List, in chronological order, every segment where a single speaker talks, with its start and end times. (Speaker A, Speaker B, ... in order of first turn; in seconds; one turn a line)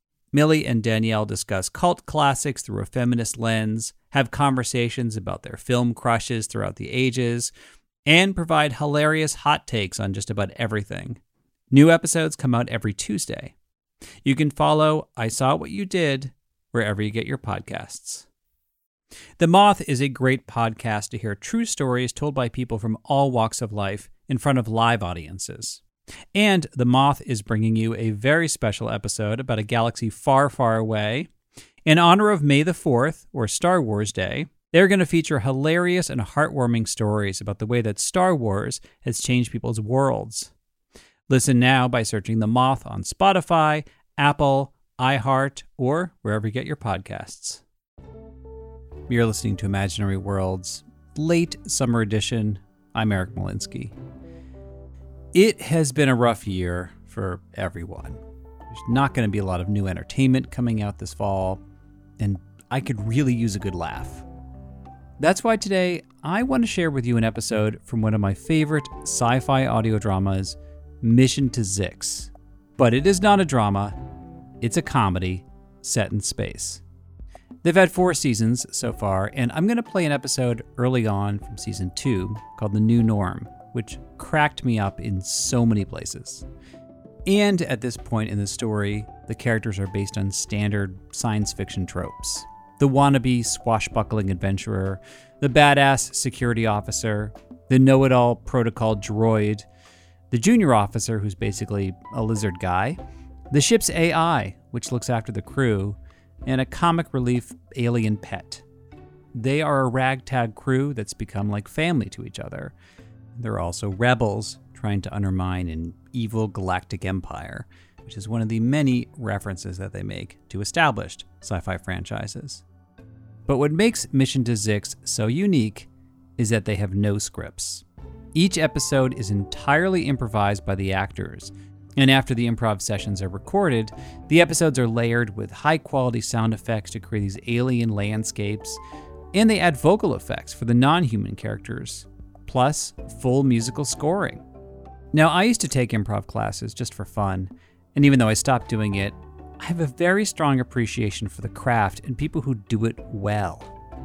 Speaker A: 0.3-7.5
Speaker A: 8.1-11.2
Speaker A: 11.7-13.5
Speaker A: 14.2-18.2
Speaker A: 19.4-25.8
Speaker A: 26.3-31.3
Speaker A: 31.8-40.5
Speaker A: 41.3-47.6
Speaker A: 49.1-53.9
Speaker A: 55.3-61.6
Speaker A: 62.2-64.2
Speaker A: 65.2-73.9
Speaker A: 74.6-76.8
Speaker A: 77.6-86.4
Speaker A: 87.2-99.7
Speaker A: 100.3-103.0
Speaker A: 103.5-108.6
Speaker A: 109.3-112.7
Speaker A: 113.4-122.6
Speaker A: 123.5-127.8
Speaker A: 128.3-138.8
Speaker A: 139.3-144.4
Speaker A: 145.1-153.7